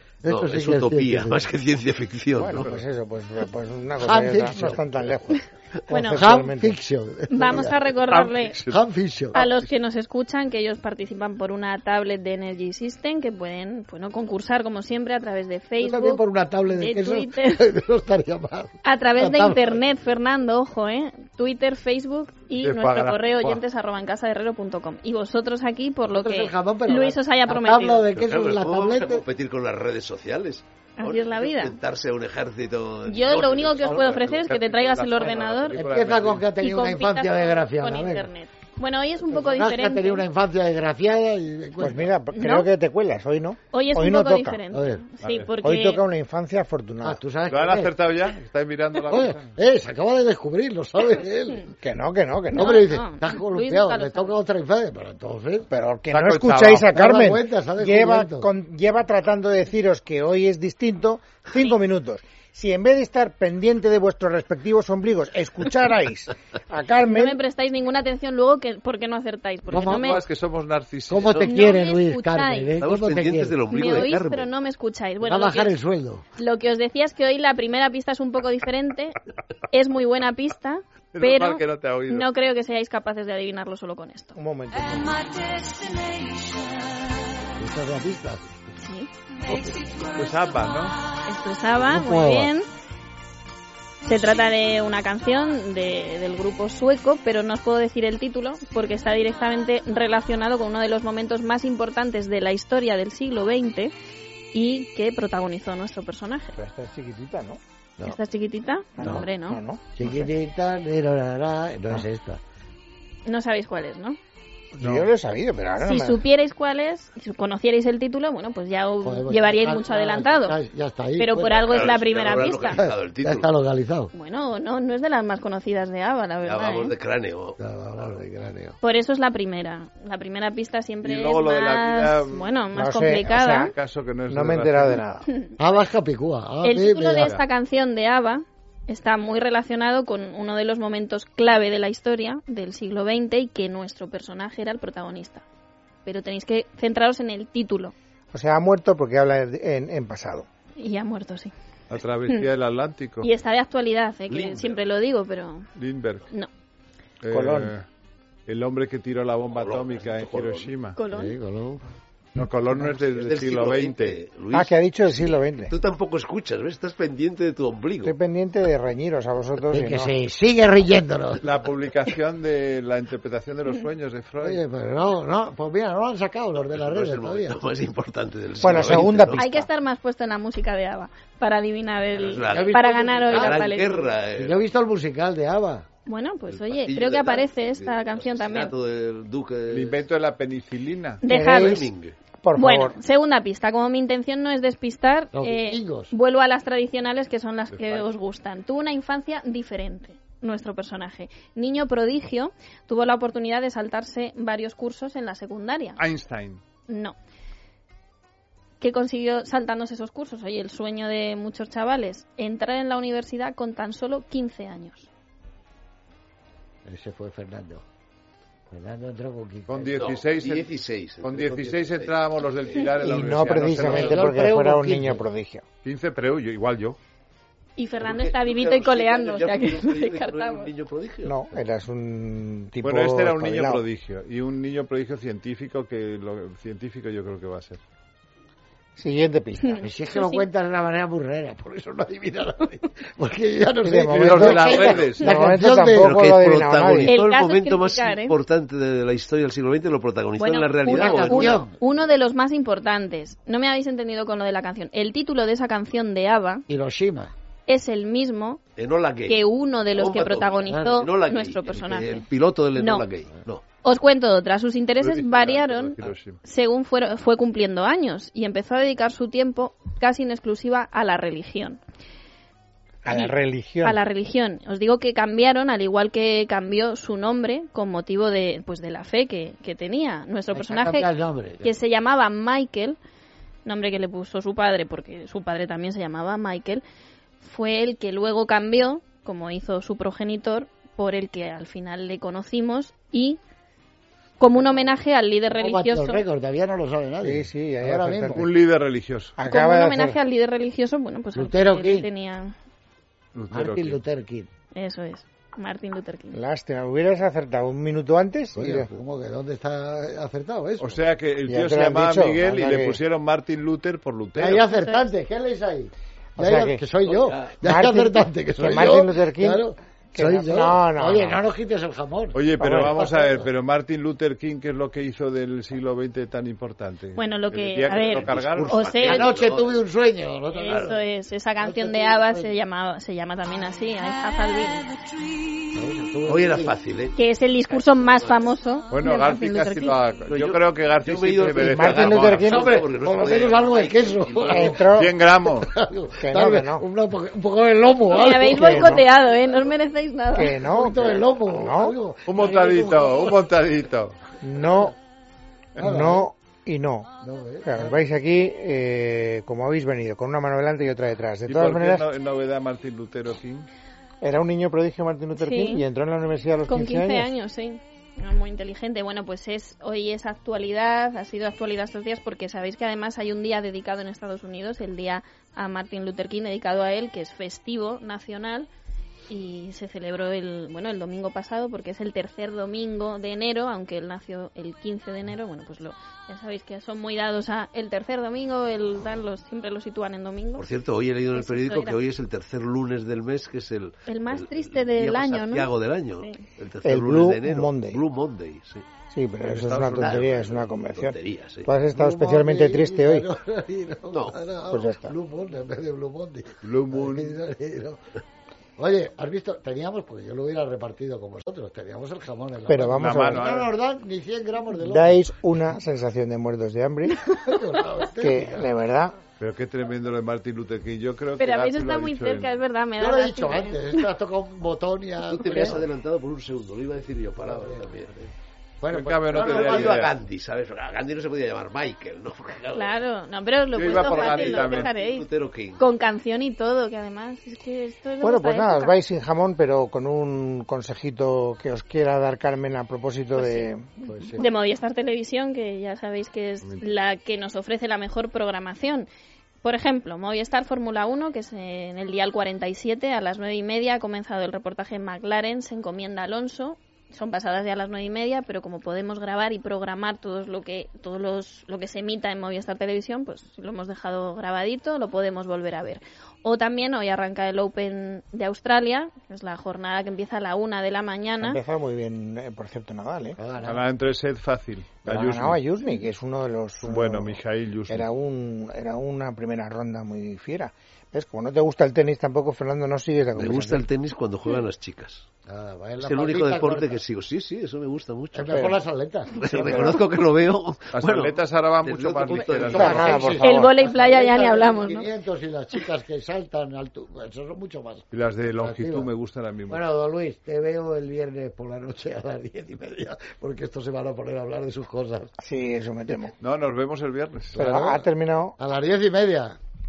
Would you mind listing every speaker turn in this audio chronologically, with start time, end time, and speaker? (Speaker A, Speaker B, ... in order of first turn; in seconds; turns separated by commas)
Speaker A: 0.2-1.5, Speaker B: 0.2-2.7, Speaker C: 2.3-6.8, Speaker A: 4.0-5.1, Speaker D: 5.9-6.2, Speaker A: 6.1-7.8, Speaker D: 7.3-8.6, Speaker E: 8.1-8.8, Speaker A: 8.7-9.4, Speaker D: 9.3-17.6, Speaker A: 15.8-19.8, Speaker D: 18.8-28.1, Speaker E: 22.6-23.6, Speaker A: 26.1-29.2, Speaker B: 28.1-34.4, Speaker D: 31.0-31.8, Speaker D: 33.0-35.8, Speaker A: 33.9-34.3, Speaker E: 34.5-36.5, Speaker A: 35.7-38.3, Speaker D: 36.6-40.2, Speaker A: 39.3-42.1, Speaker C: 41.8-44.6, Speaker D: 42.3-42.7, Speaker D: 43.7-46.0, Speaker A: 44.7-45.0, Speaker E: 45.2-45.5, Speaker C: 45.6-47.2, Speaker A: 47.0-47.9, Speaker E: 47.5-49.5, Speaker A: 49.1-51.7, Speaker C: 51.8-52.8, Speaker A: 52.5-55.7, Speaker D: 52.5-54.3, Speaker C: 55.7-67.4, Speaker E: 56.1-56.9, Speaker A: 56.9-58.5, Speaker D: 67.0-70.2, Speaker A: 69.7-70.2, Speaker E: 69.8-71.4, Speaker A: 71.1-74.1, Speaker D: 71.4-72.8, Speaker B: 72.8-74.5, Speaker D: 73.7-75.8, Speaker A: 75.2-76.2, Speaker D: 76.3-79.2, Speaker D: 79.7-84.3, Speaker E: 81.1-82.2, Speaker C: 84.3-85.3, Speaker D: 85.5-85.9, Speaker A: 87.6-88.6, Speaker D: 88.8-89.1, Speaker A: 89.4-90.0, Speaker E: 90.0-91.0, Speaker D: 91.2-92.7, Speaker A: 91.8-92.5, Speaker D: 94.0-103.9, Speaker D: 104.5-106.5, Speaker C: 106.5-107.6, Speaker D: 108.0-109.6, Speaker C: 109.0-110.3, Speaker A: 109.9-112.4, Speaker D: 113.2-114.2, Speaker C: 114.7-116.2, Speaker E: 114.8-115.1, Speaker D: 115.8-120.5, Speaker A: 119.0-121.7, Speaker D: 121.2-122.8, Speaker B: 121.7-123.5, Speaker A: 122.6-124.1, Speaker D: 124.1-126.9, Speaker B: 126.4-127.6, Speaker A: 127.6-128.8, Speaker D: 128.8-133.7, Speaker E: 131.0-132.6, Speaker C: 132.7-133.7, Speaker E: 133.6-135.0, Speaker C: 134.3-135.3, Speaker A: 135.6-137.3, Speaker D: 136.6-145.4, Speaker E: 137.2-137.4, Speaker D: 146.0-147.9, Speaker C: 148.3-150.5, Speaker D: 150.8-151.5, Speaker E: 151.9-153.3, Speaker D: 153.2-155.7, Speaker B: 154.3-154.8, Speaker E: 155.8-156.3, Speaker E: 157.2-157.8, Speaker C: 157.3-157.7, Speaker E: 158.4-161.0, Speaker B: 159.5-160.7, Speaker D: 160.9-161.3, Speaker A: 161.1-161.8, Speaker E: 162.3-164.2, Speaker B: 162.8-168.2, Speaker C: 164.5-165.7, Speaker C: 168.0-170.1, Speaker A: 169.7-171.4, Speaker E: 171.4-174.6, Speaker A: 174.4-177.6, Speaker B: 176.6-179.5, Speaker C: 178.6-179.7, Speaker D: 179.3-184.1, Speaker B: 182.1-184.6, Speaker A: 182.5-183.6, Speaker A: 184.3-185.8, Speaker D: 186.1-188.7, Speaker B: 186.5-190.0, Speaker E: 189.7-191.2, Speaker D: 191.2-191.9, Speaker C: 191.3-191.9, Speaker B: 191.3-192.2, Speaker C: 192.4-192.9, Speaker D: 192.6-206.0, Speaker A: 195.3-196.1, Speaker E: 206.0-206.6, Speaker D: 206.9-207.2, Speaker D: 208.8-215.1, Speaker A: 216.8-217.8, Speaker A: 218.7-220.0, Speaker E: 219.7-224.4, Speaker B: 220.0-222.2, Speaker C: 223.0-225.6, Speaker A: 223.8-225.2, Speaker E: 225.8-227.0, Speaker D: 227.8-230.7, Speaker B: 228.0-231.7, Speaker C: 231.2-233.8, Speaker E: 232.8-237.8, Speaker C: 239.0-239.8, Speaker D: 239.6-240.4, Speaker A: 239.8-246.2, Speaker C: 243.8-247.1, Speaker E: 244.1-245.4, Speaker B: 244.7-245.0, Speaker B: 246.0-251.6, Speaker D: 247.1-248.4, Speaker D: 250.4-256.6, Speaker A: 250.9-251.7, Speaker A: 256.7-257.3, Speaker D: 257.7-258.6, Speaker B: 258.8-263.6, Speaker D: 259.2-263.1, Speaker A: 260.7-261.0, Speaker D: 263.8-271.8, Speaker E: 265.0-266.4, Speaker C: 273.0-274.0, Speaker D: 273.1-281.1, Speaker A: 280.5-281.6, Speaker D: 281.6-283.0, Speaker D: 283.6-286.8, Speaker D: 287.4-293.4, Speaker D: 294.4-296.2, Speaker A: 295.5-298.5, Speaker C: 297.2-298.5, Speaker E: 298.3-299.3, Speaker C: 299.4-300.2, Speaker D: 299.5-302.5, Speaker A: 301.3-302.1, Speaker E: 303.3-304.0, Speaker A: 303.5-304.5, Speaker D: 304.7-306.4, Speaker C: 306.3-308.9, Speaker A: 308.5-311.0, Speaker E: 310.8-314.6, Speaker C: 311.4-313.0, Speaker A: 314.4-323.4, Speaker D: 314.7-315.0, Speaker C: 316.4-316.8, Speaker B: 317.0-317.5, Speaker C: 317.6-321.4, Speaker E: 322.3-328.8, Speaker C: 322.6-323.0, Speaker D: 327.1-329.3, Speaker B: 328.0-329.8, Speaker A: 329.0-331.0, Speaker D: 330.5-334.9, Speaker B: 330.7-330.9, Speaker A: 331.6-332.5, Speaker A: 335.7-336.8, Speaker B: 336.2-337.2, Speaker D: 337.1-340.0, Speaker E: 338.9-342.6, Speaker B: 340.3-344.8, Speaker C: 341.6-342.7, Speaker A: 342.5-344.9, Speaker C: 344.4-345.1, Speaker E: 344.8-345.7, Speaker A: 345.4-349.0, Speaker C: 346.2-346.8, Speaker D: 348.1-350.6, Speaker C: 348.4-349.1, Speaker C: 350.3-351.9, Speaker A: 350.6-353.4, Speaker E: 352.2-354.3, Speaker C: 354.4-354.9, Speaker A: 355.8-356.3, Speaker C: 355.8-357.1, Speaker A: 357.2-358.0, Speaker C: 357.6-362.1, Speaker E: 361.5-363.7, Speaker C: 364.2-367.3, Speaker D: 365.4-365.8, Speaker D: 366.7-378.7, Speaker D: 379.3-390.7, Speaker B: 390.6-398.8, Speaker D: 391.3-392.0, Speaker D: 394.1-396.4, Speaker C: 396.8-398.0, Speaker C: 399.1-403.3, Speaker B: 399.4-401.7, Speaker A: 401.9-408.0, Speaker B: 404.1-404.4, Speaker C: 404.7-405.1, Speaker E: 406.6-407.4, Speaker A: 408.8-415.3, Speaker C: 412.7-413.4, Speaker E: 412.9-413.7, Speaker C: 414.8-417.2, Speaker A: 417.3-418.7, Speaker C: 418.2-419.1, Speaker E: 419.4-422.5, Speaker D: 421.4-424.1, Speaker A: 423.0-425.8, Speaker B: 425.2-428.3, Speaker A: 427.4-427.9, Speaker A: 428.8-430.0, Speaker E: 428.9-430.1, Speaker B: 429.3-433.0, Speaker D: 432.7-438.9, Speaker E: 433.7-434.9, Speaker B: 433.8-435.8, Speaker C: 438.2-444.4, Speaker D: 443.4-443.7, Speaker A: 444.1-444.4, Speaker D: 444.4-449.1, Speaker D: 449.6-471.6, Speaker C: 471.4-473.4, Speaker A: 473.4-473.9, Speaker E: 473.6-475.6, Speaker C: 475.1-483.9, Speaker E: 476.8-478.1, Speaker B: 483.4-485.2, Speaker A: 485.5-487.0, Speaker B: 486.0-488.6, Speaker A: 488.3-489.9, Speaker C: 488.5-488.8, Speaker B: 489.3-493.4, Speaker C: 489.5-490.0, Speaker E: 490.9-493.1, Speaker A: 492.3-499.1, Speaker C: 492.7-493.7, Speaker D: 493.4-495.1, Speaker E: 498.1-499.8, Speaker A: 499.7-505.3, Speaker C: 505.4-506.3, Speaker E: 506.4-507.6, Speaker A: 507.5-509.6, Speaker C: 507.6-508.6